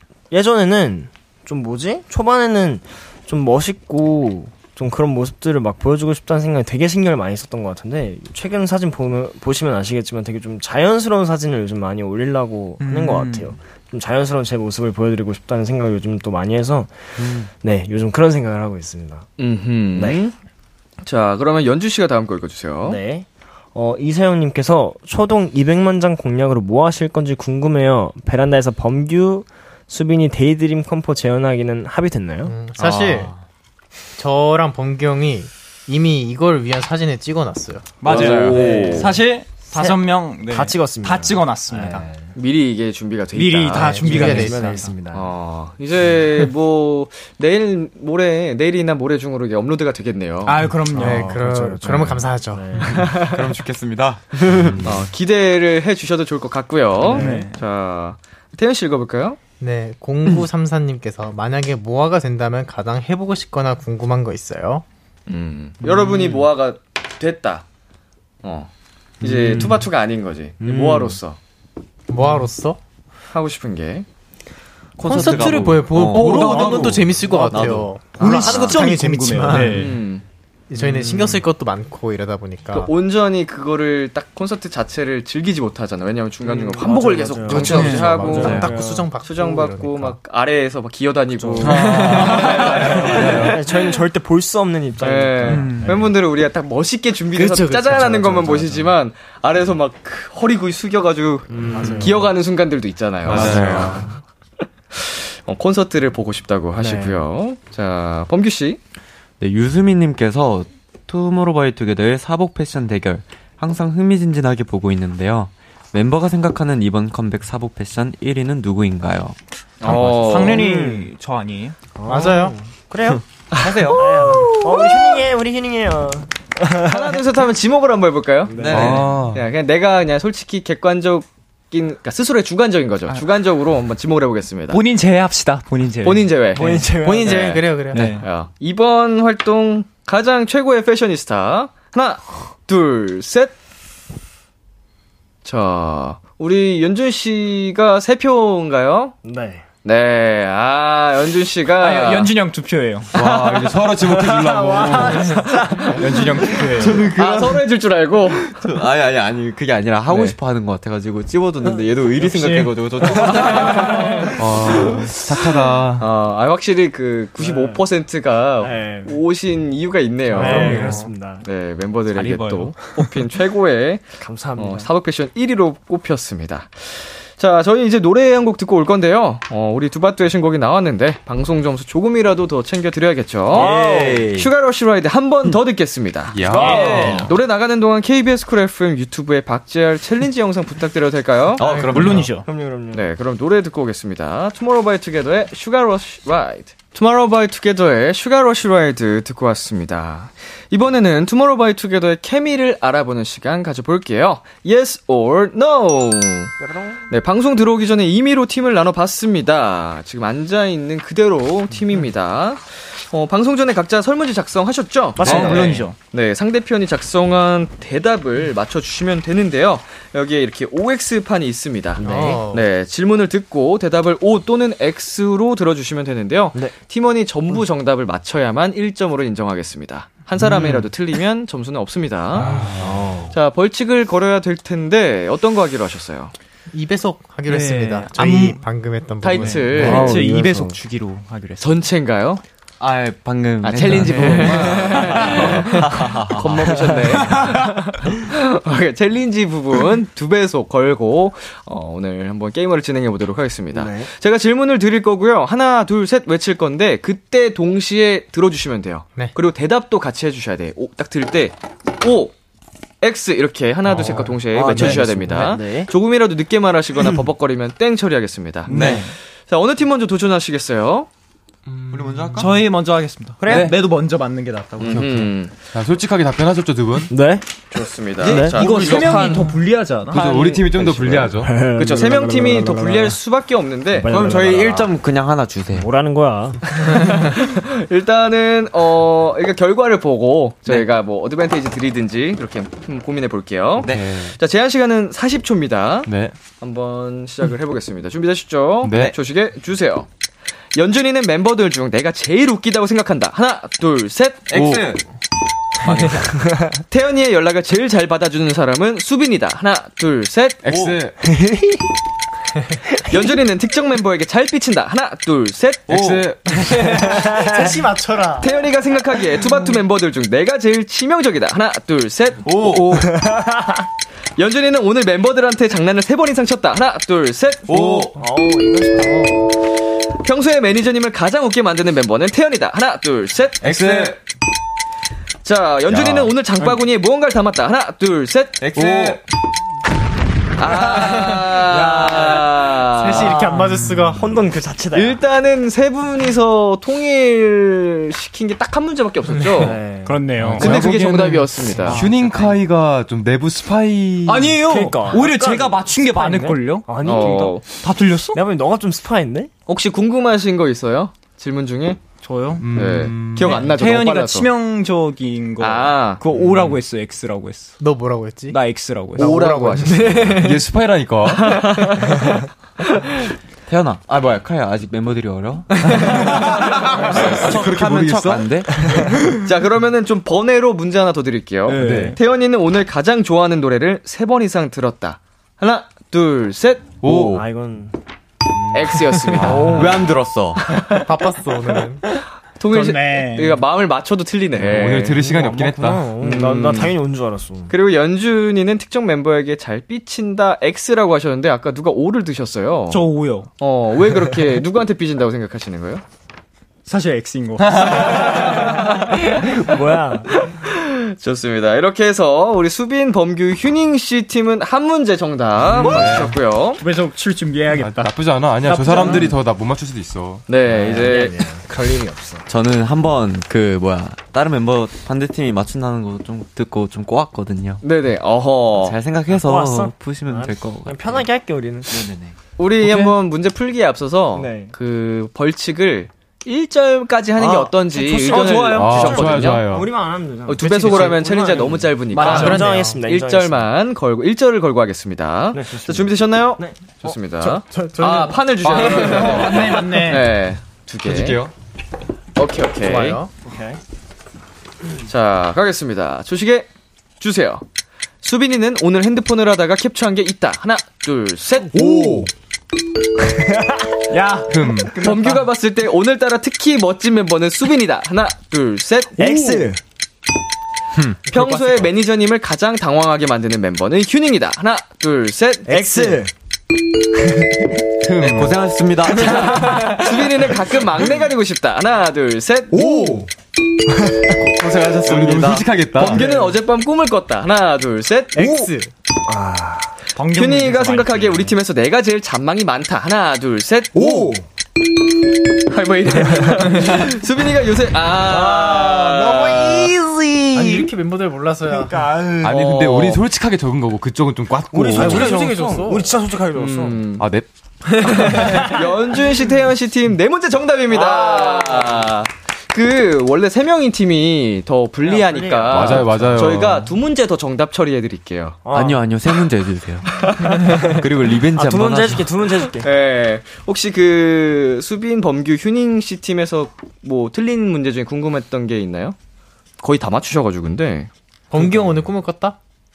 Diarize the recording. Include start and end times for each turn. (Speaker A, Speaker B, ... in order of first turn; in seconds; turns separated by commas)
Speaker A: 0.3-16.9, Speaker B: 12.8-13.6, Speaker C: 17.2-17.5, Speaker A: 17.5-19.3, Speaker D: 19.4-20.4, Speaker D: 21.0-23.0, Speaker A: 22.9-32.5, Speaker E: 32.5-33.3, Speaker C: 32.8-33.4, Speaker E: 34.2-37.9, Speaker B: 38.0-42.1, Speaker D: 38.0-39.2, Speaker C: 38.1-38.5, Speaker A: 38.4-42.3, Speaker D: 42.4-44.1, Speaker B: 43.4-44.9, Speaker E: 43.7-44.9, Speaker A: 44.0-45.3, Speaker D: 45.1-50.6, Speaker B: 50.5-51.4, Speaker A: 50.9-53.1, Speaker E: 51.0-52.7, Speaker D: 52.9-53.4, Speaker C: 53.0-54.8, Speaker A: 54.5-54.8, Speaker D: 54.8-59.4, Speaker A: 57.1-57.4, Speaker B: 57.1-57.6, Speaker E: 59.6-64.8, Speaker D: 65.3-67.7, Speaker D: 68.4-71.4, Speaker A: 69.2-69.9, Speaker A: 70.6-71.2, Speaker E: 72.1-72.8, Speaker D: 73.3-74.1, Speaker C: 75.0-78.0, Speaker E: 75.0-79.9, Speaker D: 76.1-77.6, Speaker B: 76.2-76.7, Speaker B: 78.2-80.0, Speaker D: 78.2-78.8, Speaker D: 79.6-80.2, Speaker E: 80.7-82.9, Speaker A: 81.0-81.3, Speaker D: 82.7-93.6, Speaker A: 86.4-89.1, Speaker E: 87.5-90.2, Speaker B: 87.7-88.2, Speaker C: 88.4-88.7, Speaker A: 91.3-96.1, Speaker F: 91.6-93.6, Speaker D: 95.0-104.1, Speaker B: 95.5-96.0, Speaker E: 97.3-98.8, Speaker A: 101.5-102.2, Speaker F: 101.6-102.1, Speaker F: 103.2-104.1, Speaker C: 103.3-103.9, Speaker D: 104.9-108.8, Speaker A: 106.8-107.2, Speaker C: 109.4-120.5, Speaker D: 119.8-120.7, Speaker B: 119.8-121.8, Speaker A: 120.5-121.1, Speaker A: 122.0-123.2, Speaker E: 122.1-122.6, Speaker C: 123.5-124.9, Speaker D: 123.6-123.9, Speaker A: 123.9-127.2, Speaker D: 126.8-134.8, Speaker A: 128.5-129.0, Speaker C: 128.5-129.1, Speaker F: 128.7-129.4, Speaker B: 134.7-136.8, Speaker D: 136.0-143.6, Speaker A: 136.6-137.6, Speaker E: 137.0-138.2, Speaker B: 137.9-138.3, Speaker D: 145.4-149.2, Speaker A: 149.2-149.7, Speaker D: 149.8-152.3, Speaker B: 151.8-153.1, Speaker D: 153.1-153.9, Speaker F: 153.1-155.5, Speaker A: 154.2-156.6, Speaker B: 155.0-157.1, Speaker C: 156.7-157.6, Speaker D: 157.1-158.6, Speaker C: 158.6-164.3, Speaker D: 160.1-160.4, Speaker B: 162.2-162.8, Speaker D: 163.4-164.0, Speaker F: 164.4-166.1, Speaker D: 166.0-191.7, Speaker A: 167.4-167.8, Speaker A: 168.6-169.2, Speaker A: 170.3-171.4, Speaker E: 170.4-171.0, Speaker B: 170.7-171.0, Speaker B: 172.1-173.1, Speaker A: 174.2-174.9, Speaker A: 183.5-184.3, Speaker C: 183.5-184.5, Speaker F: 186.3-187.3, Speaker B: 186.6-187.2, Speaker C: 186.8-187.2, Speaker C: 191.6-192.3, Speaker E: 191.7-192.2, Speaker B: 191.8-192.5, Speaker A: 192.0-193.1, Speaker D: 192.9-206.5, Speaker A: 206.6-207.0, Speaker D: 207.1-232.5, Speaker A: 215.2-215.9, Speaker B: 215.2-216.0, Speaker E: 222.0-222.7, Speaker A: 222.1-222.4, Speaker F: 232.4-233.1, Speaker A: 232.4-233.3, Speaker D: 233.3-236.3, Speaker E: 236.7-240.0, Speaker B: 237.5-238.6, Speaker D: 239.2-240.1, Speaker B: 239.6-241.8, Speaker A: 239.7-240.8, Speaker D: 241.6-242.4, Speaker C: 242.8-246.9, Speaker D: 243.6-262.3, Speaker A: 246.8-247.3, Speaker A: 253.7-254.1, Speaker D: 263.0-271.1, Speaker A: 263.9-265.9, Speaker B: 268.7-269.1, Speaker C: 268.7-269.0, Speaker C: 271.9-272.7, Speaker F: 271.9-272.5, Speaker B: 272.4-275.0, Speaker A: 273.4-273.7, Speaker F: 273.4-273.9, Speaker D: 274.8-275.6, Speaker F: 274.8-277.1, Speaker A: 277.1-277.4, Speaker D: 277.7-284.1, Speaker A: 278.2-278.6, Speaker B: 278.3-280.2, Speaker F: 280.1-281.5, Speaker C: 280.8-281.2, Speaker A: 281.2-283.2, Speaker A: 283.9-285.0, Speaker C: 284.1-285.9, Speaker A: 285.7-287.0, Speaker D: 286.8-300.1, Speaker C: 293.8-294.2, Speaker F: 293.8-294.3, Speaker F: 296.1-296.4, Speaker F: 298.8-299.1, Speaker D: 300.8-304.5, Speaker C: 304.5-305.0, Speaker F: 304.5-304.9, Speaker C: 305.9-306.2, Speaker D: 306.9-310.8, Speaker F: 310.6-311.2, Speaker C: 310.7-311.0, Speaker A: 311.2-311.9, Speaker D: 313.1-316.1, Speaker C: 315.9-316.3, Speaker F: 315.9-317.2, Speaker A: 316.9-317.8, Speaker E: 317.4-318.5, Speaker D: 318.4-322.8, Speaker F: 322.5-322.9, Speaker C: 322.5-323.1, Speaker A: 322.9-323.8, Speaker D: 324.4-328.1, Speaker F: 327.7-328.1, Speaker C: 327.7-328.1, Speaker A: 328.2-329.5, Speaker D: 330.2-334.2, Speaker C: 333.6-334.2, Speaker D: 335.4-339.2, Speaker C: 335.9-336.3, Speaker C: 338.6-339.2, Speaker F: 338.8-339.1, Speaker D: 340.6-343.5, Speaker A: 341.8-342.3, Speaker E: 342.9-344.4, Speaker A: 343.1-345.2, Speaker D: 344.9-349.8, Speaker A: 349.6-350.2, Speaker B: 350.0-350.9, Speaker F: 350.4-354.6, Speaker D: 350.6-352.1, Speaker C: 352.0-352.5, Speaker B: 354.3-358.4, Speaker A: 354.6-357.8, Speaker D: 357.0-357.6, Speaker A: 358.3-359.5, Speaker D: 359.7-362.0, Speaker B: 362.2-367.8, Speaker F: 362.6-363.7, Speaker D: 362.7-364.5, Speaker D: 365.6-366.2, Speaker E: 367.8-368.6, Speaker B: 368.5-369.5, Speaker E: 369.2-370.3, Speaker D: 369.2-370.7, Speaker F: 370.4-371.6, Speaker D: 371.2-373.3, Speaker C: 373.7-378.8, Speaker F: 375.9-378.9, Speaker D: 375.9-376.4, Speaker A: 378.8-379.1, Speaker D: 379.4-387.1, Speaker B: 381.7-382.2, Speaker F: 381.7-382.2, Speaker F: 387.0-387.5, Speaker A: 387.1-387.9, Speaker A: 388.5-390.1, Speaker D: 388.7-389.9, Speaker F: 389.4-389.9, Speaker C: 389.5-390.6, Speaker E: 390.9-392.1, Speaker D: 392.6-395.3, Speaker B: 392.7-393.6, Speaker F: 394.6-396.1, Speaker A: 394.7-397.7, Speaker D: 396.2-397.0, Speaker D: 397.7-403.1, Speaker B: 402.9-403.5, Speaker D: 403.6-406.0, Speaker B: 406.9-408.9, Speaker D: 407.8-409.2, Speaker A: 409.3-410.5, Speaker D: 410.4-416.8, Speaker F: 415.6-416.4, Speaker B: 415.8-416.2, Speaker B: 416.8-419.3, Speaker F: 417.8-420.4, Speaker D: 420.5-421.5, Speaker A: 420.7-422.4, Speaker C: 422.5-427.8, Speaker D: 427.8-429.0, Speaker C: 428.8-431.3, Speaker A: 429.3-432.1, Speaker C: 431.9-432.4, Speaker D: 432.6-439.7, Speaker F: 432.8-433.1, Speaker A: 434.4-434.7, Speaker A: 437.4-443.7, Speaker F: 438.3-439.9, Speaker D: 440.5-451.4, Speaker E: 440.6-441.2, Speaker B: 442.1-442.7, Speaker E: 442.1-443.0, Speaker A: 445.5-446.8, Speaker E: 447.4-448.5, Speaker F: 448.6-449.7, Speaker B: 449.0-450.3, Speaker F: 451.0-451.5, Speaker D: 452.4-453.2, Speaker E: 452.8-453.3, Speaker A: 453.4-453.8, Speaker D: 455.1-456.7, Speaker D: 457.2-457.6, Speaker D: 458.2-462.0, Speaker F: 461.7-462.3, Speaker A: 463.4-464.0, Speaker B: 464.1-465.4, Speaker F: 464.5-464.9, Speaker D: 465.0-469.7, Speaker A: 469.2-469.8, Speaker D: 471.3-476.2, Speaker A: 475.7-476.3, Speaker F: 478.0-478.7, Speaker C: 478.2-479.7, Speaker D: 479.1-483.0, Speaker F: 482.7-483.3, Speaker C: 484.6-485.7, Speaker F: 484.6-486.3, Speaker D: 485.9-488.7, Speaker A: 486.0-486.5, Speaker E: 488.4-488.9, Speaker A: 489.3-489.9, Speaker B: 490.2-491.5, Speaker D: 490.3-494.4, Speaker A: 494.0-494.3, Speaker D: 495.7-500.0, Speaker A: 496.2-496.5, Speaker A: 498.2-500.9, Speaker E: 500.5-502.1, Speaker A: 501.7-502.6, Speaker F: 502.4-505.4, Speaker D: 502.4-503.2, Speaker A: 504.7-507.0, Speaker E: 505.0-506.1, Speaker D: 506.5-507.3, Speaker F: 507.2-507.5, Speaker D: 508.0-518.6, Speaker A: 510.9-512.0, Speaker A: 515.0-516.5, Speaker F: 515.7-516.9, Speaker A: 518.6-519.4, Speaker C: 518.7-522.4, Speaker D: 520.3-520.6, Speaker A: 521.5-522.9, Speaker D: 522.7-529.2, Speaker D: 529.8-531.1, Speaker E: 531.5-532.6